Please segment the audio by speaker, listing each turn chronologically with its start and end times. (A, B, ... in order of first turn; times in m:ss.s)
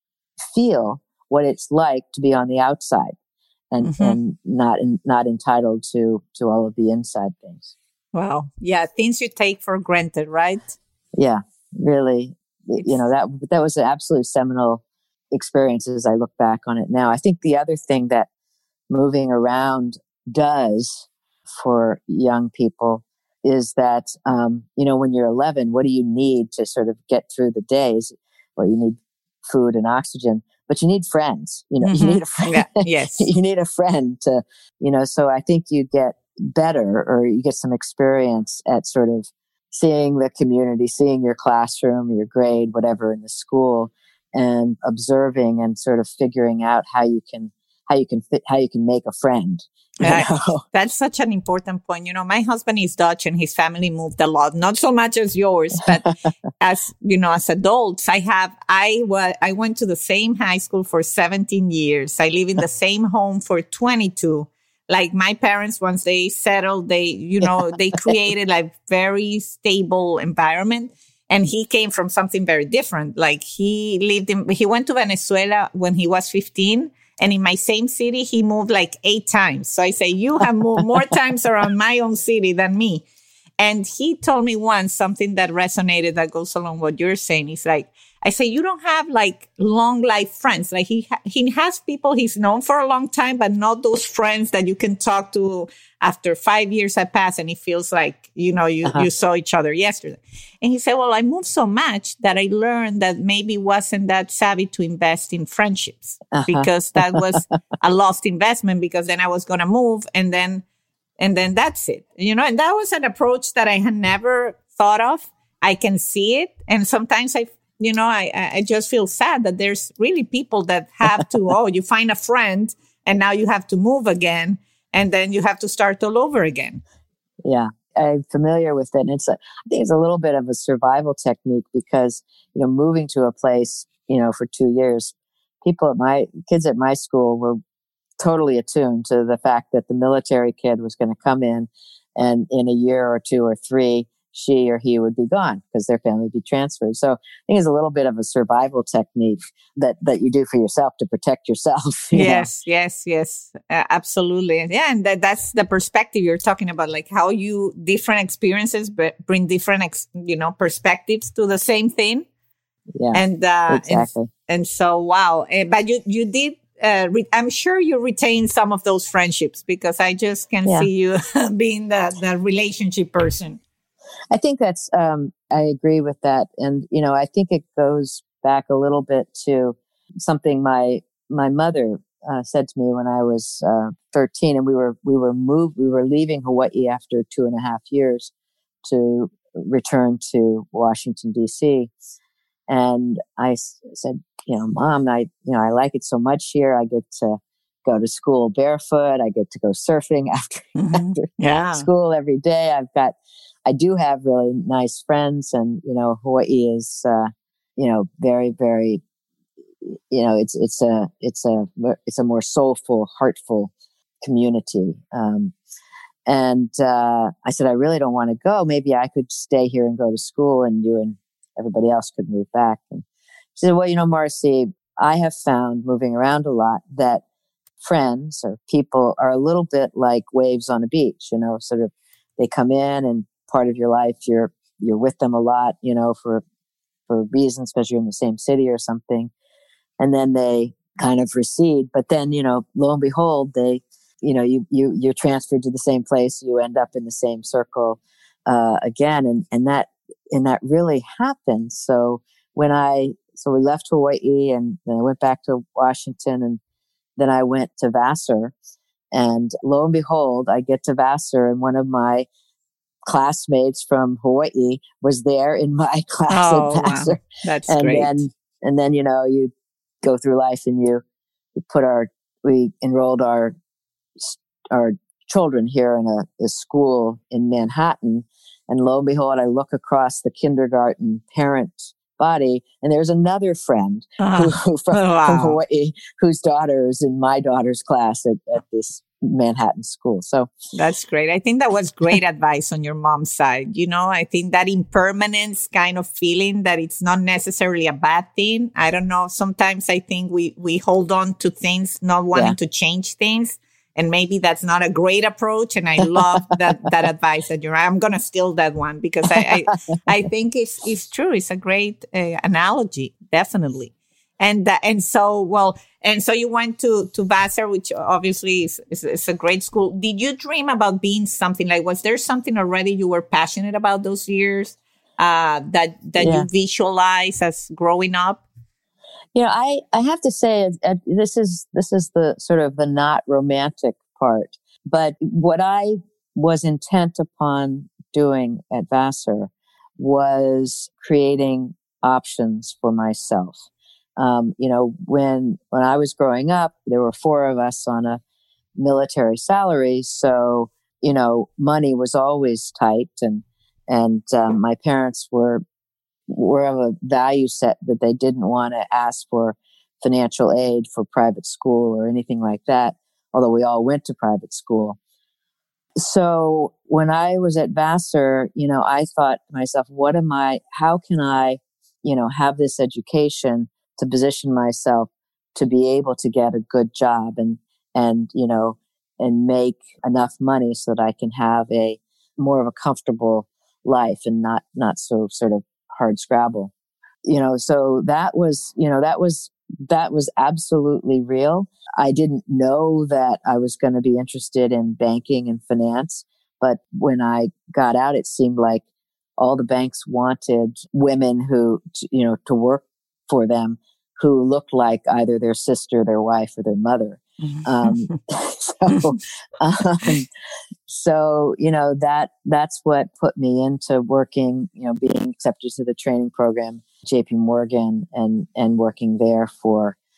0:00.4-0:03.2 A
0:03.7-0:07.7 A
0:03.8-0:04.2 B
0:08.1-0:10.8 B
0:11.2-0:18.3 A
0:18.9-0:50.6 A
0:31.8-0:33.3 B
0:50.0-1:23.0 B
1:23.6-1:50.6 B
1:46.3-1:47.4 A
1:51.2-2:06.8 B
2:07.4-2:17.6 A
2:18.2-2:32.5 A
2:32.1-2:42.3 B
2:42.9-2:44.3 A
2:43.1-2:53.6 B
2:54.3-3:08.3 A
3:08.8-3:11.9 A
3:12.7-3:29.0 A
3:20.8-3:21.9 B
3:29.8-3:35.5 A
3:36.3-3:43.0 A
3:43.6-3:47.2 A
3:47.8-3:56.4 A
3:57.1-3:59.3 A
4:00.0-4:16.6 A
4:17.2-4:18.5 A
4:19.1-4:22.3 A
4:23.0-4:31.0 A
4:26.3-4:28.2 B
4:31.6-4:33.6 A
4:34.2-4:50.5 A
4:44.2-4:45.6 B
4:50.7-5:28.4 B
5:26.2-5:26.5 A
5:29.3-5:43.6 A
5:44.2-5:48.2 A
5:48.8-5:55.6 A
5:56.3-6:05.0 A
6:06.0-6:26.7 A
6:27.2-6:38.8 A
6:39.4-6:50.3 A
6:47.4-6:48.2 B
6:50.9-7:00.0 A